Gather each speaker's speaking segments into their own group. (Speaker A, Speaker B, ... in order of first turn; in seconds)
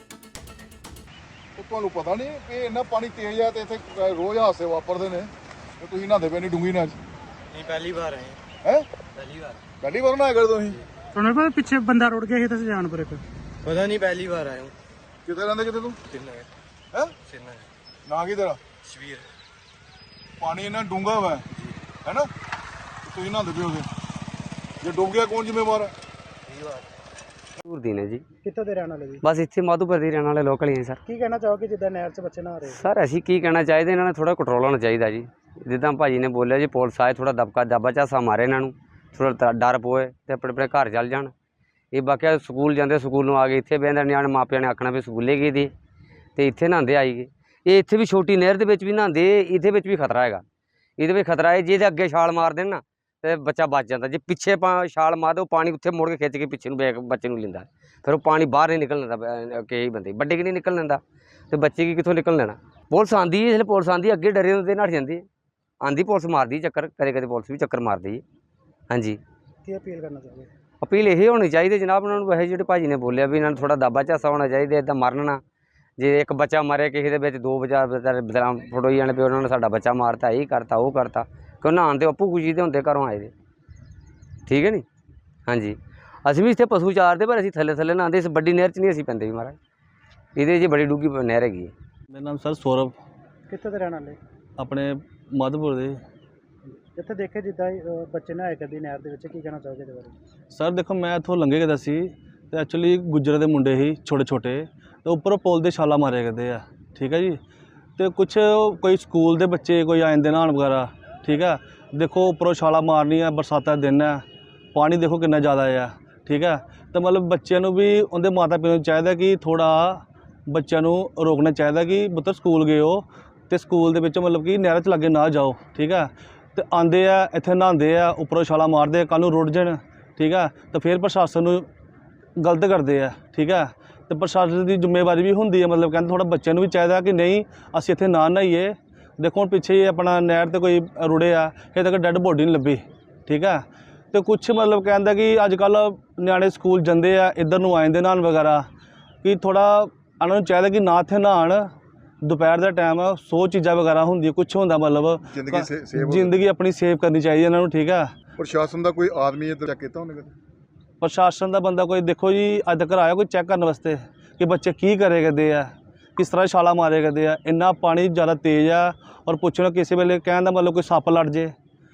Speaker A: 1.6-7.0, 9.8-10.8, 15.2-16.0, 18.1-18.6, 20.4-21.4, 23.1-23.9, 24.8-25.9, 155.3-156.3, 158.4-160.3
Speaker B: 7.5-8.4, 9.2-9.6, 13.6-14.7, 16.1-16.5, 17.2-17.7, 18.8-19.3, 26.5-26.8
Speaker C: 11.1-13.2, 28.4-29.2, 31.1-32.8, 69.7-70.5, 93.5-94.2, 96.7-100.1
Speaker D: 27.6-28.2, 29.2-31.0, 32.7-41.3, 41.9-45.7, 46.4-50.4, 51.0-65.2, 65.8-68.2, 68.9-69.2, 70.8-75.4, 76.0-83.3, 84.5-84.8, 85.5-89.6, 90.4-91.7
Speaker E: 92.1-93.0, 94.6-96.0, 100.5-107.4, 108.0-114.2, 114.8-131.7, 132.4-148.7, 149.2-151.7, 152.2-158.1, 161.0-171.5